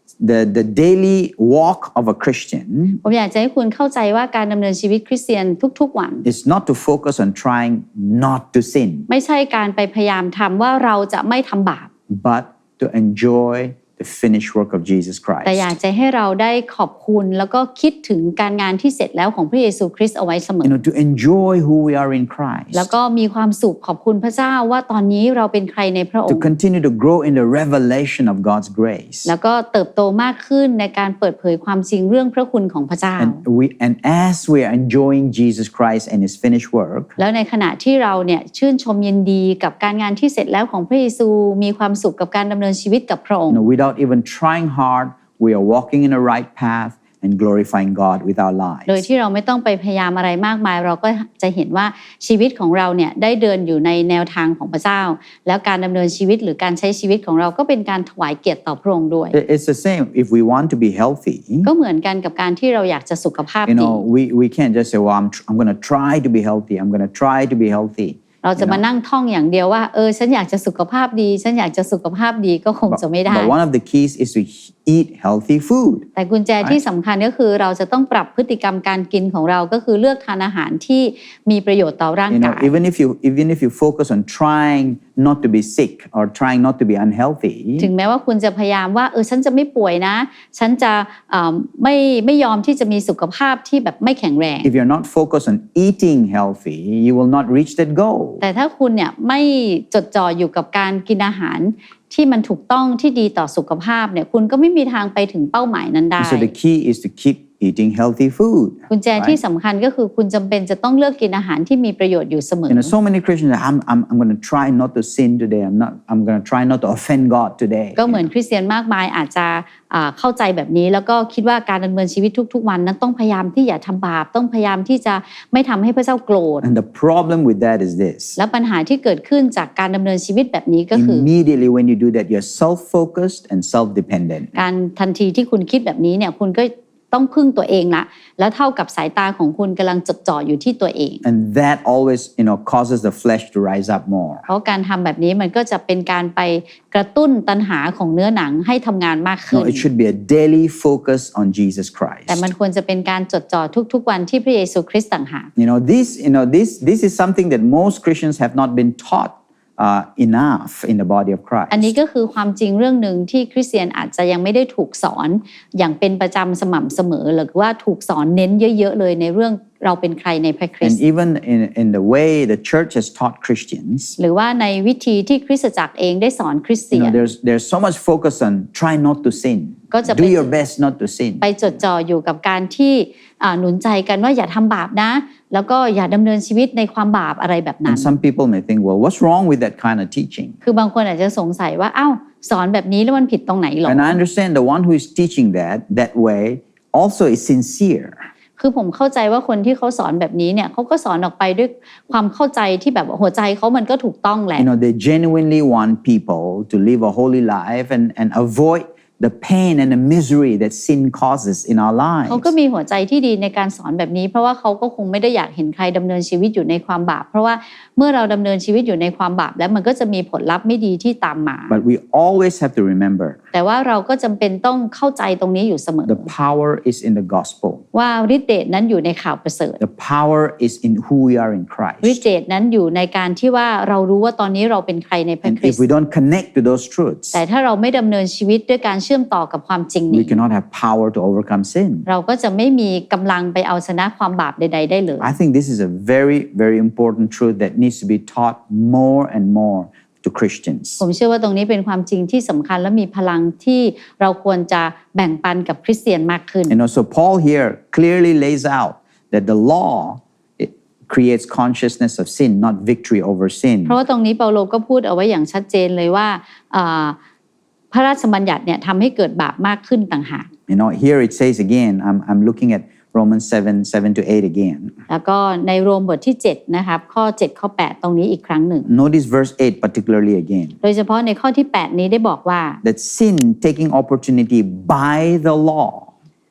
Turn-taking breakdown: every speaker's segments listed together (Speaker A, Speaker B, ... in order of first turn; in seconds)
Speaker A: 0.2-3.0, 6.2-9.1, 12.1-15.7, 20.6-22.9, 26.3-29.3, 33.2-37.1, 43.5-49.0, 59.3-61.7, 63.6-68.8, 72.9-76.1, 82.3-87.9, 94.6-98.4, 106.2-109.4, 112.7-118.2, 126.6-128.4, 130.9-134.6, 141.2-144.4, 149.5-152.5, 155.6-161.9, 170.8-174.2, 176.9-181.5, 187.8-190.6, 193.8-198.3, 204.6-212.5, 221.7-223.4, 226.1-227.8, 229.8-232.2, 235.4-237.4, 240.1-242.1, 245.2-251.0, 256.7-264.0, 270.7-274.9, 278.9-280.7, 282.8-286.1
Speaker B: 3.0-6.2, 9.1-11.9, 15.4-20.7, 22.7-26.5, 29.2-33.4, 37.2-43.6, 48.9-59.3, 61.6-64.0, 68.4-73.5, 76.2-82.8, 87.8-94.7, 98.4-106.5, 108.9-112.9, 118.0-126.6, 128.4-131.3, 134.6-141.2, 144.5-149.8, 152.3-155.5, 161.7-171.0, 174.2-177.2, 179.9-180.5, 181.4-188.1, 190.6-194.2, 198.6-204.7, 212.3-221.7, 223.5-226.3, 227.9-229.8, 232.0-235.8, 237.3-240.4, 242.1-245.3, 251.0-256.7, 263.9-267.1, 267.9-270.5, 275.1-278.9, 280.8-282.8